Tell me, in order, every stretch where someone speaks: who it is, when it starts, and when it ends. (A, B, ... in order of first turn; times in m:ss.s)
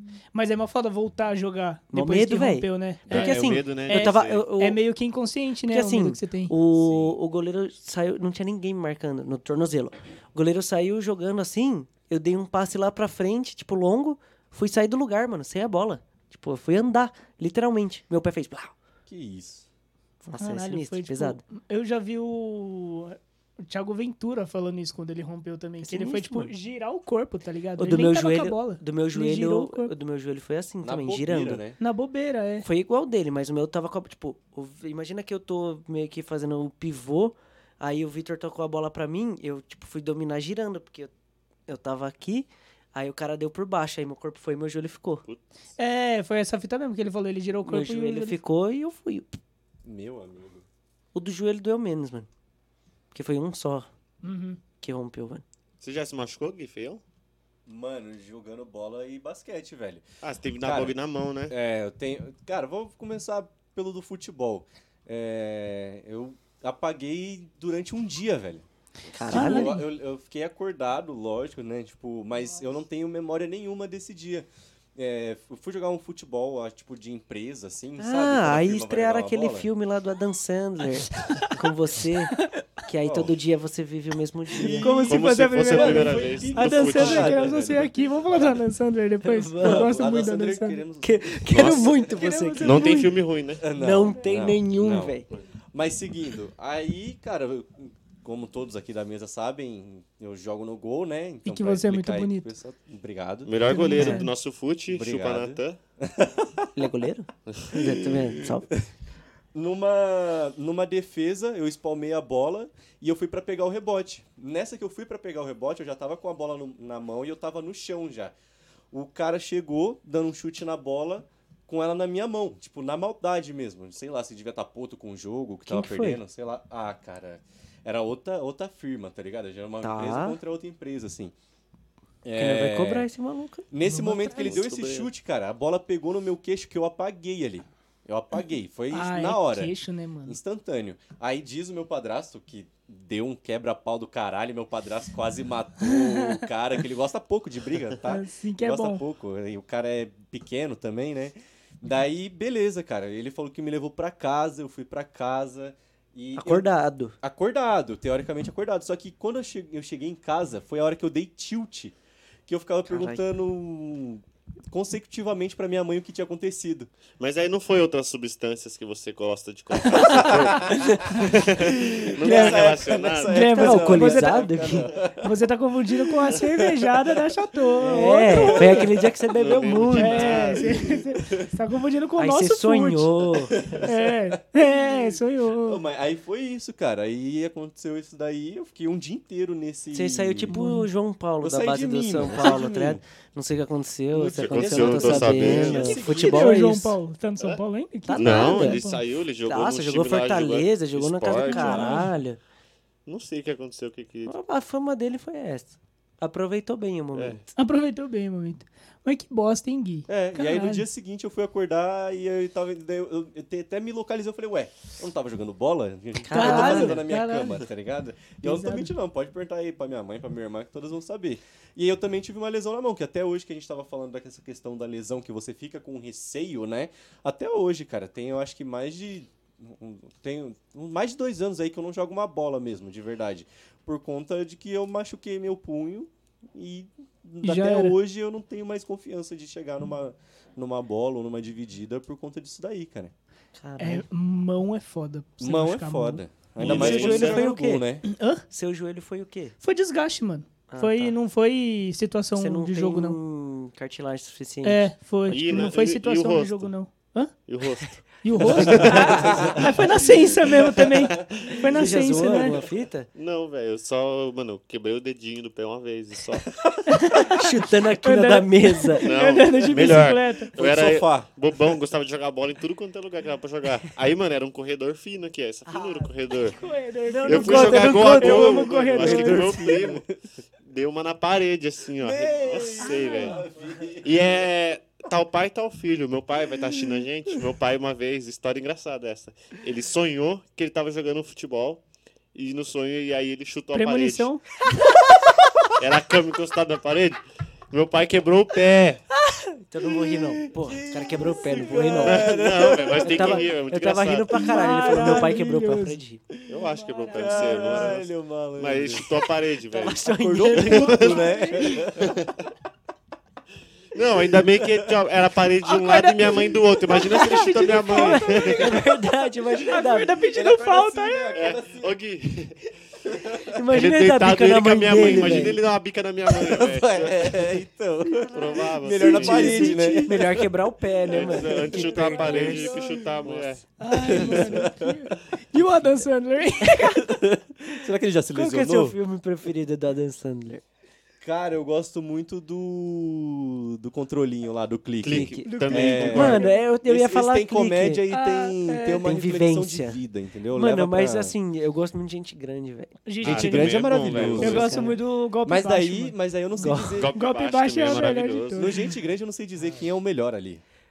0:00.3-0:06.5 A
0:01.9-0:04.8 B
0:03.1-0:04.4 C
0:05.7-0:18.7 B
0:06.7-0:07.1 D
0:19.1-0:19.6 D
0:20.2-0:21.4 B
0:20.4-0:29.9 A
0:25.8-0:26.5 B
0:27.8-0:31.6 B
0:30.8-0:31.8 D
0:31.8-0:32.7 A
0:32.6-0:41.1 B
0:41.7-0:45.2 B
0:45.8-0:48.4 A
0:47.6-0:49.4 B
0:49.8-0:50.6 D
0:51.1-0:52.3 B
0:53.1-0:53.9 B
0:54.2-0:54.6 A
0:54.8-0:55.4 B
0:55.8-0:57.0 C
0:57.6-1:00.0 D
1:00.2-1:01.5 C
1:00.6-1:01.0 D
1:01.5-1:08.6 D
1:09.1-1:09.8 B
1:09.2-1:19.7 D
1:09.3-1:09.8 A
1:18.0-1:25.1 B
1:23.0-1:23.3 D
1:24.5-1:28.6 D
1:24.7-1:30.8 A
1:25.1-1:27.6 C
1:29.2-1:29.9 B
1:29.6-1:32.0 D
1:31.0-1:33.1 B
1:31.5-1:32.0 C
1:32.0-1:33.2 A
1:32.6-1:33.6 C
1:33.6-1:35.2 D
1:33.7-1:35.3 B
1:35.7-1:43.6 D
1:41.4-1:42.5 A
1:43.4-1:45.8 C
1:43.7-1:44.3 A
1:43.9-1:44.3 B
1:44.9-1:46.8 D
1:46.7-1:48.7 B
1:47.5-1:47.8 C
1:47.8-1:48.8 D
1:49.5-1:58.3 D
1:58.9-2:11.3 D
2:05.6-2:06.2 B
2:09.8-2:10.4 B
2:12.2-2:13.1 D
2:12.3-2:13.7 B
2:13.7-2:19.7 D
2:13.8-2:14.6 A
2:14.3-2:15.1 C
2:18.9-2:20.4 A
2:20.2-2:36.7 D
2:25.9-2:26.4 A
2:28.0-2:29.0 A
2:36.4-2:37.2 B
2:37.2-2:41.9 D
2:42.5-2:46.9 D
2:42.9-2:43.2 B
2:47.2-2:53.4 C
2:50.0-2:55.3 D
2:50.6-2:51.2 B
2:52.2-2:52.6 A
2:53.3-2:58.9 A
2:53.3-2:54.9 B
2:56.2-2:57.1 D
2:57.8-2:59.1 D
2:57.8-3:00.4 B
2:59.3-3:00.8 C
2:59.9-3:03.3 A
3:00.1-3:01.5 D
3:02.2-3:03.6 B
3:03.5-3:10.5 D
3:03.8-3:05.8 A
3:09.9-3:17.0 B
3:10.5-3:10.9 A
3:11.4-3:13.0 D
3:14.1-3:16.6 D
3:14.4-3:16.0 C
3:15.7-3:19.0 A
3:18.0-3:18.8 B
3:18.1-3:22.0 C
3:19.4-3:22.4 B
3:21.4-3:22.1 A
3:21.6-3:22.0 D
3:23.0-3:24.3 C
3:24.2-3:27.4 B
3:27.1-3:27.4 C
3:27.6-3:30.8 A
3:30.1-4:03.1 D
3:36.2-3:37.0 B
3:36.3-3:37.6 A
3:38.4-3:38.9 A
3:57.4-3:58.0 A
4:03.6-4:04.0 B
4:03.8-4:06.2 A
4:05.4-4:08.0 D
4:06.6-4:07.5 C
4:06.6-4:07.9 B
4:08.0-4:08.4 A
4:08.5-4:09.6 B
4:09.6-4:13.2 A
4:10.7-4:11.2 B
4:12.4-4:14.9 B
4:14.6-4:17.3 A
4:15.3-4:16.7 C
4:17.4-4:19.6 C
4:18.2-4:22.6 A
4:18.7-4:20.8 D
4:18.8-4:19.1 B
4:21.6-4:23.1 B
4:23.1-4:26.6 C
4:26.7-4:27.1 D
4:26.9-4:30.5 A
4:27.3-4:29.1 B
4:29.0-4:36.6 C
4:29.7-4:31.3 D
4:36.5-4:39.8 A
4:37.0-4:38.4 B
4:37.2-4:40.0 C
4:38.0-4:40.1 D
4:40.6-4:43.4 C
4:42.0-4:44.2 D
4:42.8-4:43.4 A
4:44.0-4:51.8 C
4:52.3-4:54.3 C
4:53.7-4:54.4 A
4:55.7-4:59.0 C
4:59.6-5:02.4 B
5:00.1-5:03.5 D
5:02.0-5:05.0 C
5:03.0-5:06.2 B
5:04.3-5:06.0 A
5:06.5-5:12.3 C
5:06.5-5:09.3 D
5:06.7-5:08.0 A
5:09.7-5:11.2 B
5:10.0-5:12.2 D
5:10.9-5:11.8 A
5:13.9-5:18.7 C
5:14.3-5:14.9 D
5:15.6-5:19.0 A
5:17.9-5:20.1 B
5:19.6-5:21.3 A
5:20.3-5:22.0 D
5:21.3-5:22.7 C
5:23.0-5:23.4 D
5:23.5-5:25.6 B
5:23.7-5:27.5 C
5:25.0-5:25.4 D
5:26.3-5:30.5 D
5:28.3-5:29.7 C
5:29.0-5:30.4 A
5:29.5-5:33.6 B
5:31.1-5:34.5 C
5:31.6-5:33.2 D
5:31.7-5:33.0 A
5:33.8-5:37.1 A
5:33.9-5:35.1 D
5:37.0-5:39.0 D
5:38.3-5:40.6 B
5:41.2-5:51.3 D
5:45.0-5:46.5 C
5:45.0-5:48.0 B
5:45.5-5:46.6 A
5:48.1-5:49.1 A
5:49.0-5:50.0 B
5:50.5-5:52.9 B
5:53.0-5:58.9 A
5:53.2-5:54.8 C
5:53.2-5:57.1 D
5:54.3-5:55.0 B
5:56.6-5:57.1 B
5:57.0-5:58.7 C
5:58.6-6:00.6 D